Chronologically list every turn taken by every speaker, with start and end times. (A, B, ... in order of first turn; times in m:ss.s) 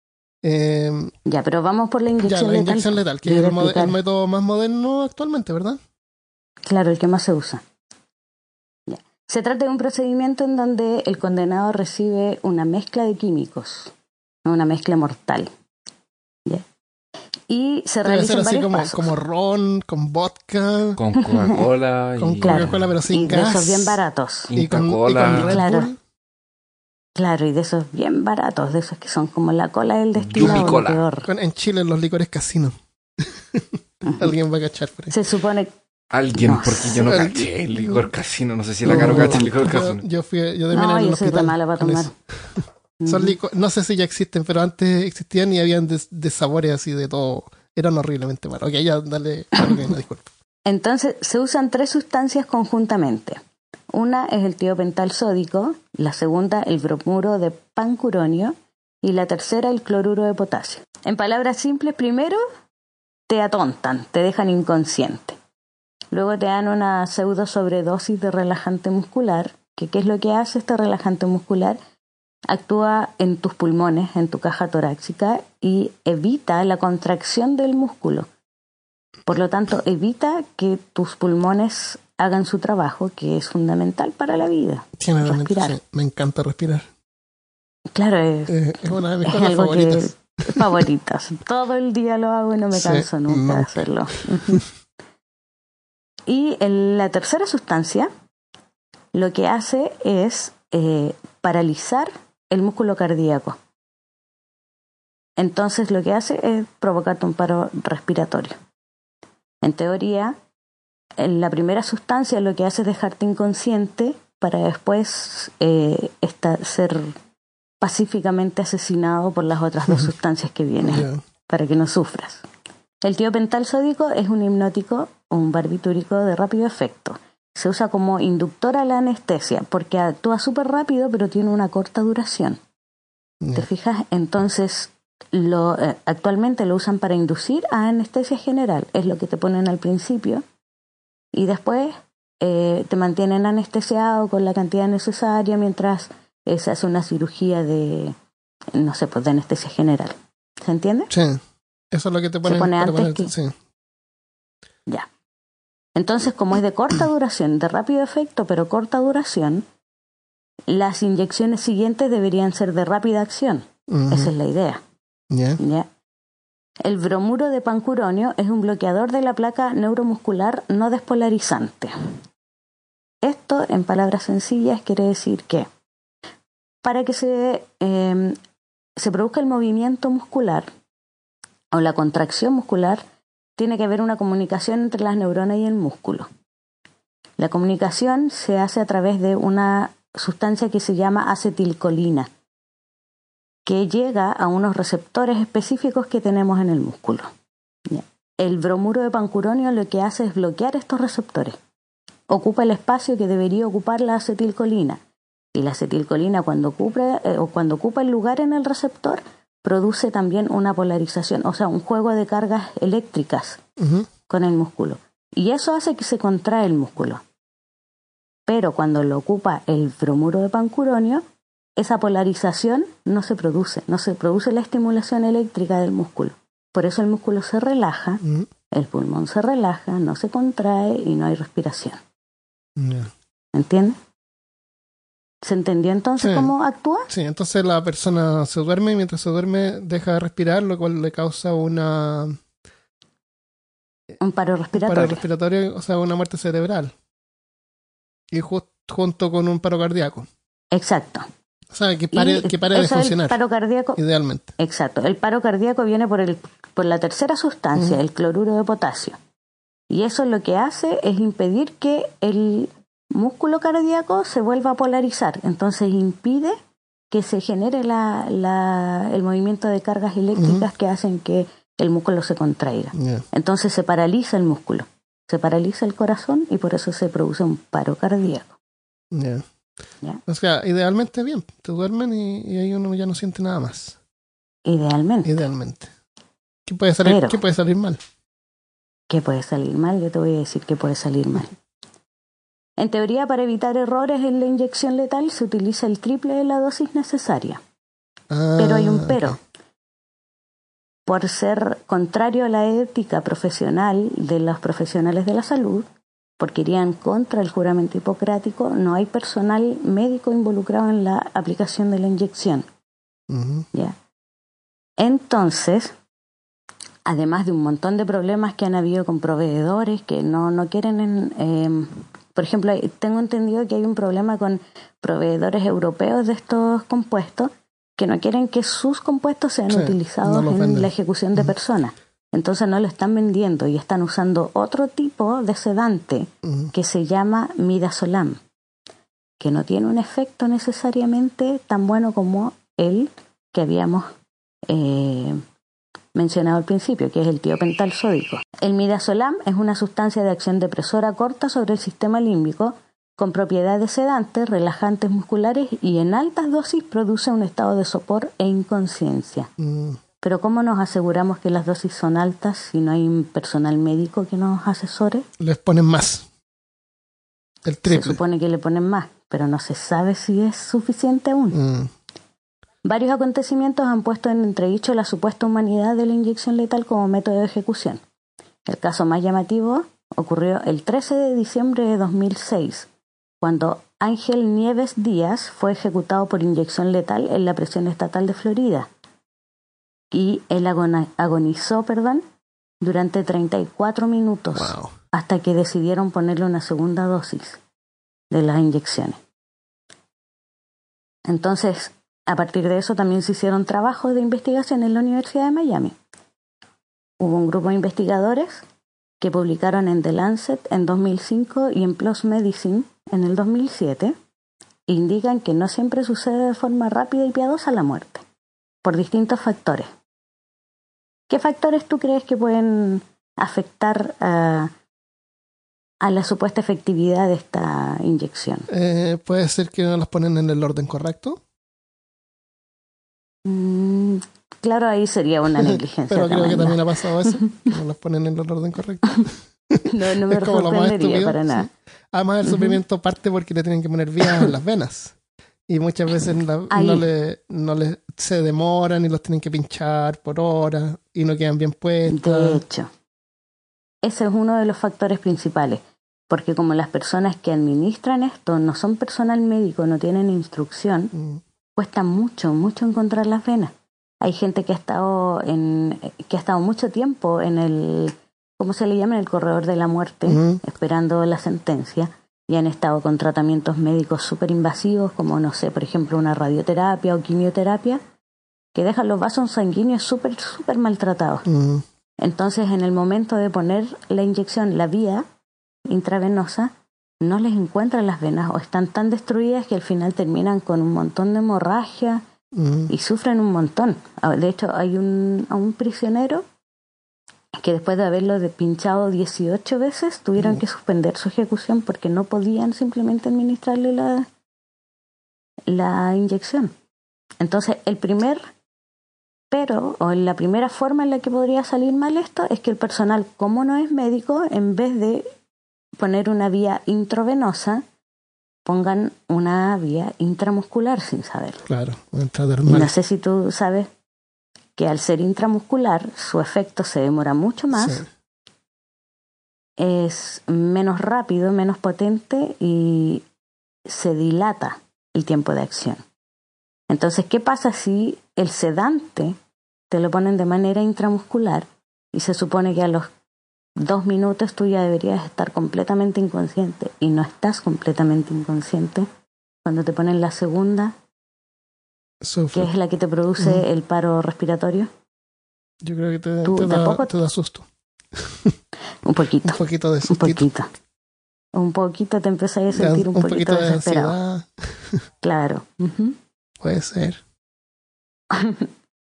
0:00.4-0:01.1 A
0:01.3-0:04.0 B
0:02.2-0:05.8 A
0:06.6-0:07.6 B
0:08.9-0:13.9 B
0:14.4-0:15.5 B
0:17.5-0:19.1 B
0:18.0-0:21.0 A
0:21.0-0:22.9 C
0:21.2-0:21.6 B
0:22.2-0:24.0 A
0:22.4-0:24.5 B
0:24.5-0:25.6 C
0:24.5-0:26.0 A
0:25.3-0:25.9 B
0:27.2-0:31.3 B
0:30.2-0:31.0 C
0:30.4-0:30.7 A
0:31.3-0:35.1 A
0:34.0-0:34.3 B
0:35.1-0:35.7 B
0:36.1-0:40.0 C
0:36.3-0:37.2 B
0:37.0-0:38.0 A
0:38.8-0:42.1 A
0:38.9-0:39.4 B
0:40.7-0:42.1 B
0:43.0-0:43.3 B
0:43.1-0:50.3 A
0:50.6-0:53.4 B
0:53.9-1:02.4 B
1:03.3-1:05.4 B
1:06.1-1:11.8 B
1:12.5-1:18.3 B
1:19.3-1:25.8 B
1:25.0-1:26.9 A
1:28.0-1:28.6 B
1:28.5-1:30.6 A
1:29.2-1:34.6 B
1:32.7-1:33.9 A
1:36.3-1:38.1 B
1:39.1-1:43.6 B
1:45.4-1:48.6 B
1:49.6-1:50.3 B
1:51.2-1:57.2 B
1:57.8-2:02.4 B
2:00.8-2:01.2 A
2:03.0-2:12.6 B
2:13.4-2:13.7 A
2:13.6-2:20.4 B
2:21.3-2:28.1 B
2:28.7-2:31.1 B
2:31.1-2:31.4 A
2:31.9-2:33.6 A
2:32.4-2:33.3 B
2:36.0-2:39.6 B
2:40.7-2:44.8 B
2:43.9-2:44.3 A
2:45.3-2:45.6 A
2:45.6-2:45.9 B
2:46.8-2:51.9 B
2:53.2-2:55.7 B
2:56.8-2:58.4 B
2:59.0-3:00.7 B
3:01.7-3:03.0 B
3:03.6-3:06.3 B
3:07.4-3:12.3 B
3:13.6-3:17.3 B
3:17.9-3:21.6 B
3:22.3-3:25.0 B
3:25.5-3:33.6 B
3:33.8-3:34.1 A
3:34.3-3:37.2 B
3:38.5-3:41.2 B
3:41.8-3:52.0 B
3:48.2-3:48.5 A
3:52.8-3:53.1 A
3:53.5-3:54.0 B
3:55.4-3:57.1 B
3:56.2-3:56.5 A
3:57.1-4:02.4 A
4:04.2-4:05.2 B
4:04.7-4:06.9 A
4:08.3-4:10.3 A
4:10.7-4:11.3 B
4:11.7-4:13.4 A
4:12.1-4:14.0 B
4:14.0-4:14.5 A
4:14.6-4:19.2 B
4:19.9-4:26.6 B
4:27.1-4:38.5 B
4:30.4-4:30.7 A
4:32.9-4:33.2 A
4:39.1-4:39.4 A
4:40.3-4:44.0 A
4:44.6-4:45.4 B
4:45.2-4:45.9 A
4:46.7-4:48.0 A
4:47.0-4:47.4 B
4:49.1-4:51.5 B
4:52.8-4:57.6 B
4:58.3-4:59.4 A
4:58.6-4:59.4 B
5:01.1-5:05.9 B
5:06.4-5:12.7 B
5:13.3-5:13.7 A
5:15.0-5:15.9 B
5:17.0-5:38.4 B
5:29.7-5:31.5 A
5:36.4-5:36.7 A
5:39.4-5:44.1 B
5:44.7-5:45.4 B
5:46.1-5:59.5 B
5:59.6-6:00.0 A
6:00.2-6:05.2 B
6:05.4-6:06.2 A
6:07.7-6:08.2 A
6:07.9-6:11.6 B
6:11.5-6:11.9 A
6:12.8-6:18.0 B
6:18.7-6:22.9 B
6:23.4-6:28.9 B
6:30.1-6:32.2 B
6:32.8-6:37.6 B
6:34.5-6:34.9 A
6:38.3-6:39.2 B
6:41.2-6:46.0 B
6:47.2-6:48.6 B
6:49.2-6:54.1 B
6:54.9-6:58.2 B
6:58.8-6:59.9 B
7:01.3-7:04.7 B
7:06.0-7:08.7 B
7:08.7-7:11.4 A
7:13.4-7:17.7 B
7:15.6-7:25.1 A
7:19.9-7:21.7 B
7:22.4-7:22.8 B
7:24.2-7:24.5 B
7:25.7-7:32.6 A
7:26.7-7:27.0 B
7:32.1-7:32.9 B
7:34.0-7:41.1 B
7:41.1-7:41.4 A
7:41.8-7:58.0 B
7:50.3-7:50.6 A
7:58.8-8:01.5 B
8:01.5-8:01.8 A
8:02.2-8:05.2 B
8:05.9-8:12.2 B
8:12.5-8:12.9 A
8:12.9-8:16.4 B
8:17.6-8:24.3 B
8:25.7-8:26.7 B
8:27.4-8:28.4 B
8:29.5-8:35.3 B
8:36.0-8:37.8 B
8:38.6-8:41.6 B
8:41.7-8:42.9 A
8:42.7-8:43.9 B
8:44.8-8:48.0 B
8:47.7-8:48.1 A
8:49.8-8:53.2 B
8:53.8-8:56.0 B
8:56.9-8:59.4 B
8:59.9-9:03.1 B
9:03.8-9:09.1 B
9:09.6-9:11.0 B
9:12.2-9:12.7 A
9:12.5-9:14.9 B
9:13.4-9:13.6 A
9:15.8-9:18.5 A
9:16.4-9:17.1 B
9:19.0-9:20.7 B
9:19.5-9:20.5 A
9:21.5-9:24.2 B
9:22.7-9:25.0 A
9:25.2-9:26.2 B
9:26.6-9:27.2 A
9:28.3-9:28.7 B